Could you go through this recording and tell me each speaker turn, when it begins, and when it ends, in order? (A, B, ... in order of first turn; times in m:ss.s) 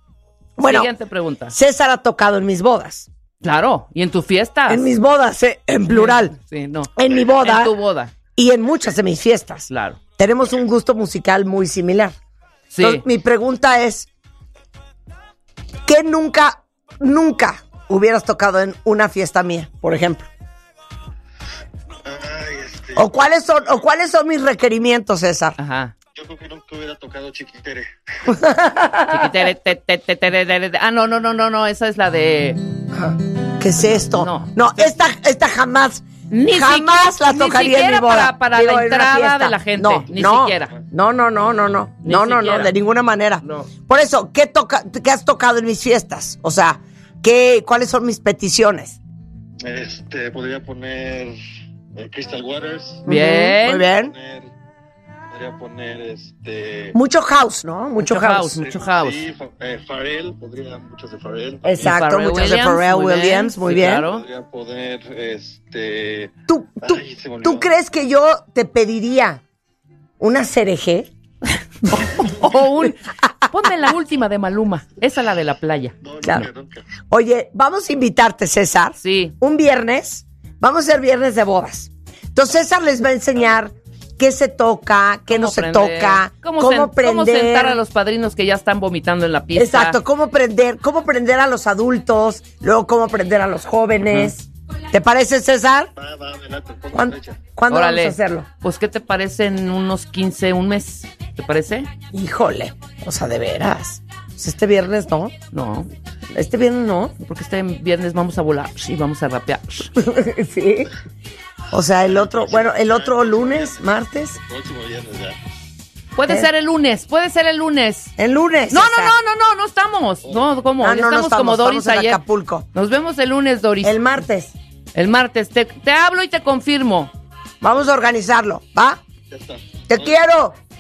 0:00.6-0:00.9 A
0:00.6-0:01.6 B
0:01.5-0:03.1 A
0:03.4-0:04.9 B
0:04.7-0:06.4 A
0:05.8-0:08.1 B
0:07.0-0:07.8 A
0:08.4-0:12.2 A
0:09.7-0:10.0 B
0:12.7-0:13.0 B
0:12.8-0:14.1 A
0:15.9-0:20.3 A
0:22.0-0:23.7 C
0:23.0-0:25.6 A
0:25.6-0:26.0 B
0:26.2-0:28.3 C
0:28.3-0:29.3 A
0:29.1-0:32.6 B
0:32.9-0:49.0 A
0:34.2-0:34.9 B
0:36.3-0:40.7 B
0:42.0-0:42.7 B
0:43.4-0:43.7 B
0:49.6-0:51.4 C
0:51.9-0:53.1 C
0:53.1-0:53.9 B
0:53.1-0:54.1 A
0:53.8-0:54.5 C
0:55.3-0:57.0 C
0:56.9-0:58.6 A
0:58.0-0:59.2 B
0:58.6-1:02.0 C
1:01.6-1:04.0 A
1:01.8-1:04.2 B
1:04.0-1:07.7 C
1:06.5-1:09.4 A
1:10.2-1:11.1 A
1:11.9-1:16.0 B
1:11.9-1:12.2 A
1:16.0-1:16.9 C
1:16.2-1:16.5 A
1:17.1-1:27.8 A
1:19.0-1:19.4 B
1:25.3-1:30.0 B
1:29.6-1:35.9 A
1:34.1-1:34.3 B
1:36.0-1:37.4 C
1:36.9-1:38.5 A
1:37.7-1:41.9 B
1:42.1-1:45.4 A
1:45.5-1:45.9 B
1:46.3-1:47.1 A
1:47.2-1:49.9 B
1:50.0-1:50.9 A
1:51.7-1:54.4 A
1:52.1-1:53.8 C
1:54.4-1:55.4 C
1:56.2-1:58.1 B
1:58.2-1:59.2 A
1:58.7-2:02.2 B
2:00.8-2:02.7 A
2:02.7-2:04.0 B
2:03.8-2:04.5 A
2:05.0-2:07.1 B
2:07.6-2:09.0 A
2:09.3-2:10.2 C
2:09.9-2:10.6 A